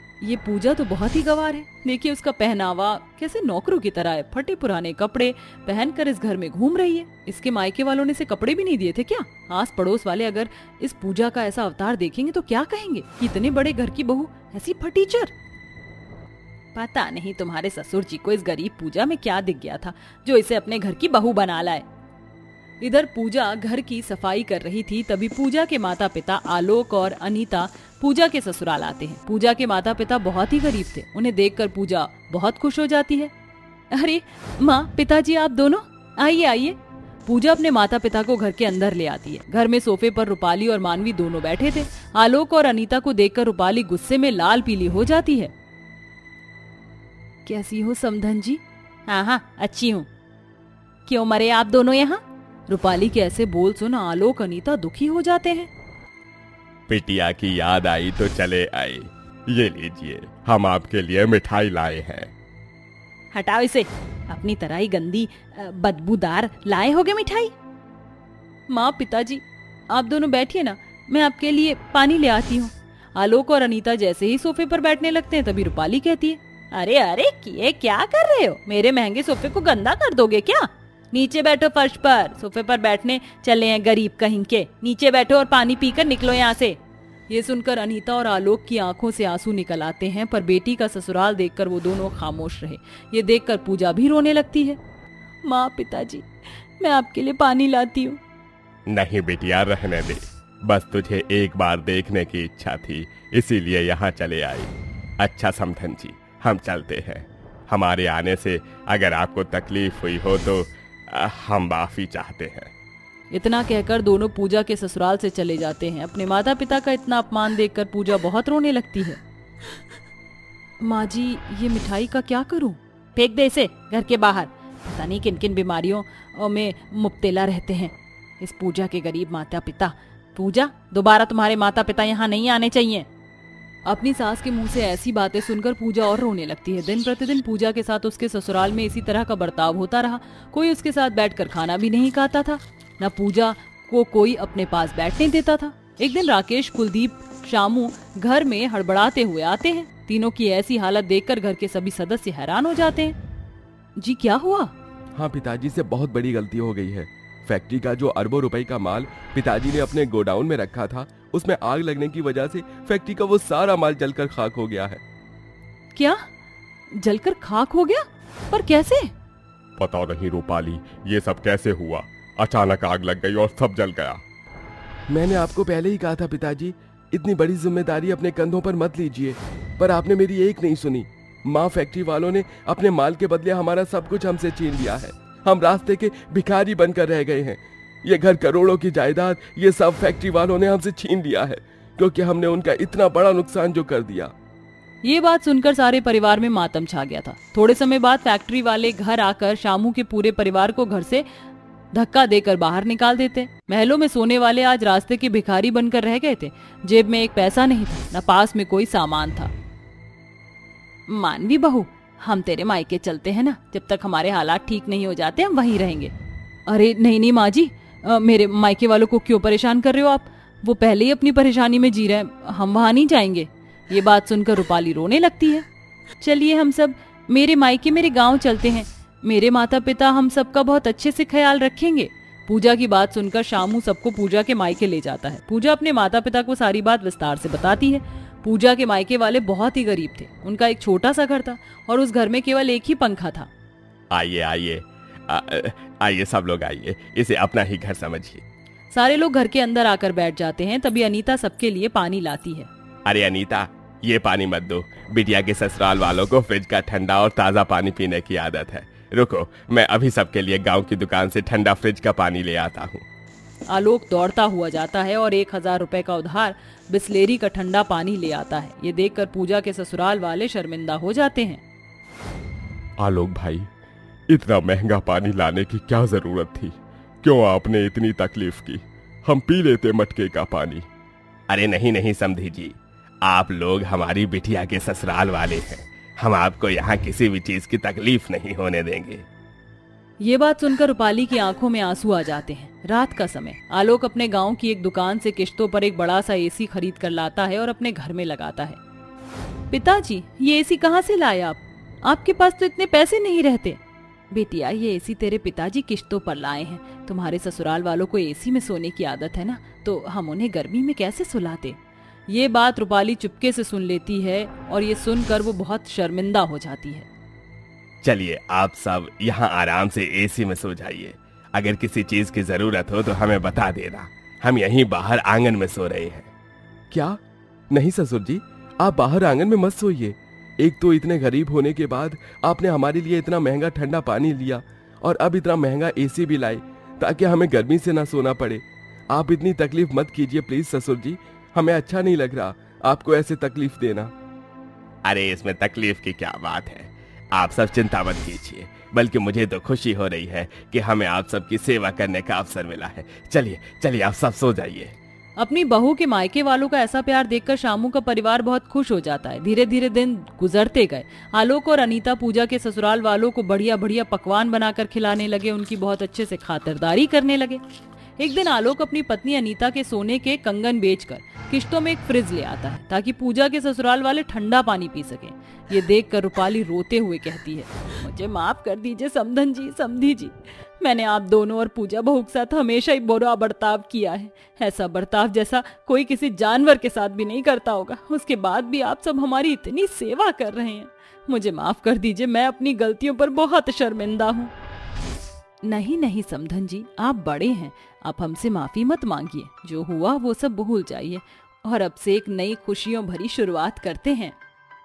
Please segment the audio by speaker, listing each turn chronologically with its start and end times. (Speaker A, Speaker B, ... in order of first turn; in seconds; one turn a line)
Speaker A: 0.2-15.3
Speaker A: 16.7-21.9
Speaker A: 22.8-33.3
Speaker A: 33.9-45.5
Speaker A: 47.5-50.1
Speaker A: 51.0-55.7
Speaker B: 56.9-62.3
Speaker A: 63.3-67.5
Speaker A: 68.7-94.8
Speaker A: 95.5-96.3
Speaker A: 96.8-98.2
Speaker B: 98.9-112.7
Speaker A: 113.3-119.2
Speaker A: 120.8-133.1
Speaker A: 133.8-153.2
Speaker A: 154.0-154.7
Speaker B: 155.2-165.0
Speaker A: 165.9-166.2
Speaker A: 167.0-169.1
Speaker B: 169.8-174.2
Speaker B: 175.1-194.3
Speaker A: 195.0-201.2
Speaker A: 201.9-209.5
Speaker A: 211.1-216.1
Speaker A: 216.7-225.7
Speaker A: 226.2-243.5
Speaker B: 244.1-248.4
Speaker A: 248.9-252.7
Speaker B: 253.1-263.0
Speaker A: 263.7-271.6
Speaker B: 273.0-273.7
Speaker B: 274.3-280.9
Speaker B: 281.5-289.2
Speaker A: 290.2-298.8
Speaker A: 299.7-303.8
Speaker A: 304.3-317.1
Speaker B: 318.0-326.3
Speaker B: 326.9-327.2
Speaker B: 327.7-344.1
Speaker B: 345.1-354.9
Speaker A: 355.4-367.6
Speaker A: 368.2-394.5
Speaker A: 395.6-404.3